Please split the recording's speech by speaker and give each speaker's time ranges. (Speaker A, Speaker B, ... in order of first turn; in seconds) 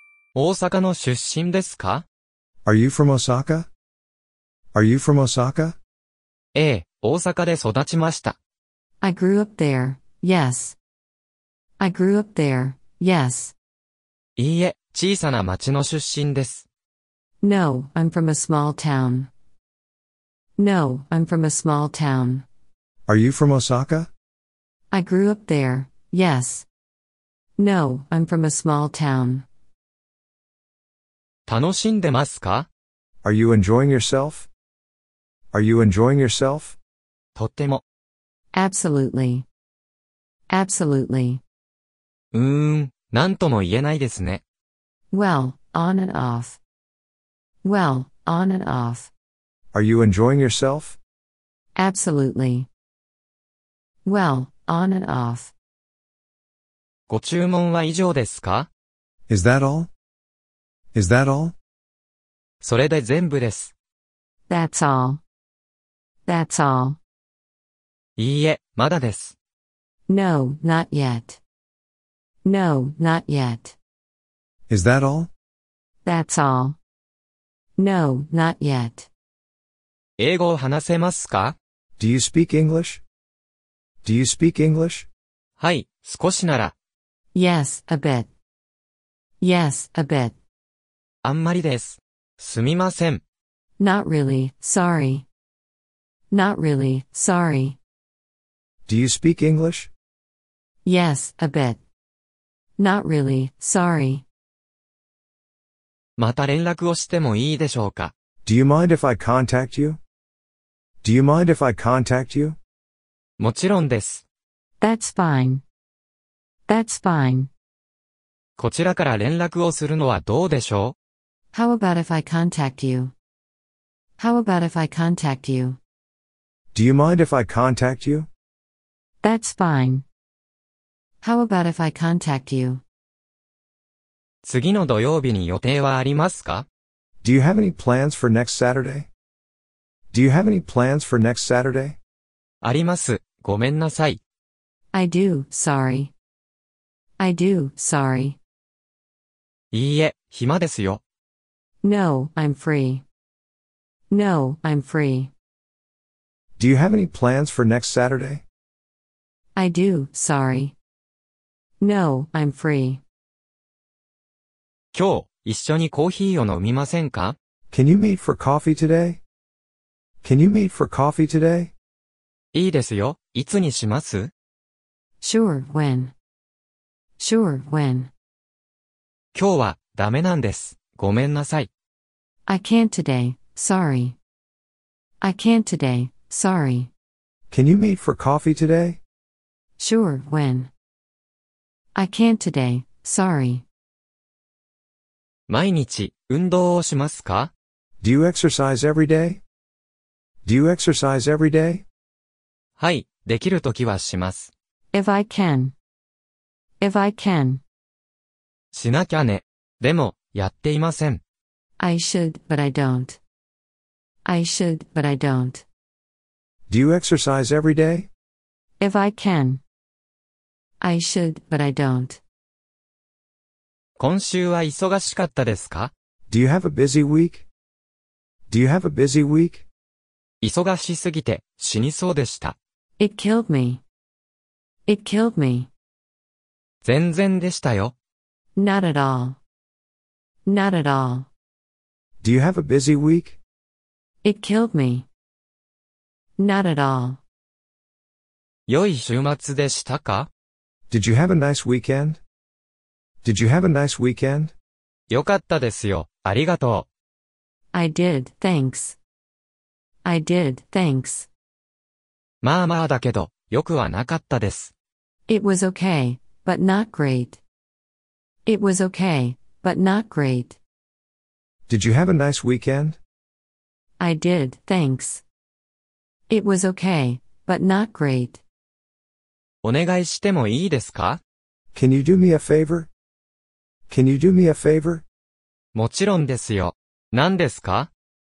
Speaker A: 0.3-2.0, 6.5-8.4, 14.4-16.7, 31.5-32.7, 37.4-37.8, 42.3-44.4, 57.1-58.7, 62.6-63.7, 68.2-69.3, 80.2-81.6, 85.6-86.7, 91.2-93.2, 106.2-108.1, 113.4-114.2, 118.6-120.9, 134.4-136.7, 142.6-144.2, 149.7-151.0, 164.9-167.3, 172.5-174.3, 179.3-181.7, 195.5-197.5, 202.8-204.5, 208.7-211.2, 224.0-225.9, 230.4-232.6, 236.8-237.9, 248.7-250.3, 255.1-256.9, 262.4-264.7, 279.6-281.2, 285.8-287.9
Speaker B: 2.7-3.7, 4.7-5.8, 23.1-24.1, 33.2-34.5, 35.5-36.8, 49.7-51.0, 59.3-59.9, 60.9-61.5, 74.7-75.3, 82.0-83.0, 84.0-85.1, 98.9-99.9, 108.4-110.0, 111.0-112.6, 126.7-128.3, 137.2-139.1, 140.1-142.0, 156.6-158.4, 167.7-169.2, 170.2-171.7, 187.5-189.0, 198.0-199.4, 200.4-201.8, 216.7-218.1, 226.3-227.4, 228.5-229.7, 242.2-243.4, 250.9-252.2, 253.2-254.5, 271.7-273.0, 281.7-282.9, 283.9-285.0
Speaker C: 9.0-10.8, 11.8-13.5, 17.4-19.3, 20.6-22.5, 24.9-26.7, 27.6-29.5, 38.5-39.5, 40.5-41.4, 45.1-46.6, 47.6-49.1, 51.7-52.7, 54.0-55.5, 64.5-65.2, 66.2-67.0, 70.1-71.4, 72.4-73.8, 76.0-76.8, 77.8-79.1, 87.3-88.3, 89.4-90.3, 93.8-95.2, 96.3-97.8, 100.8-101.8, 102.8-104.2, 114.8-115.6, 116.7-117.5, 121.5-123.1, 124.2-125.8, 129.2-130.0, 131.2-132.8, 144.9-146.1, 147.2-148.4, 151.8-153.0, 154.1-155.3, 159.5-160.8, 161.8-163.0, 175.2-176.1, 177.2-178.1, 182.4-184.2, 185.2-186.9, 189.8-190.7, 191.9-193.6, 204.9-205.7, 206.8-207.6, 211.8-213.2, 214.2-215.6, 218.8-219.6, 220.8-222.2, 233.0-233.8, 234.8-235.7, 238.6-239.4, 240.4-241.3, 244.2-245.1, 246.4-247.2, 257.7-259.0, 260.0-261.3, 265.3-267.4, 268.4-270.6, 274.0-275.2, 276.3-278.4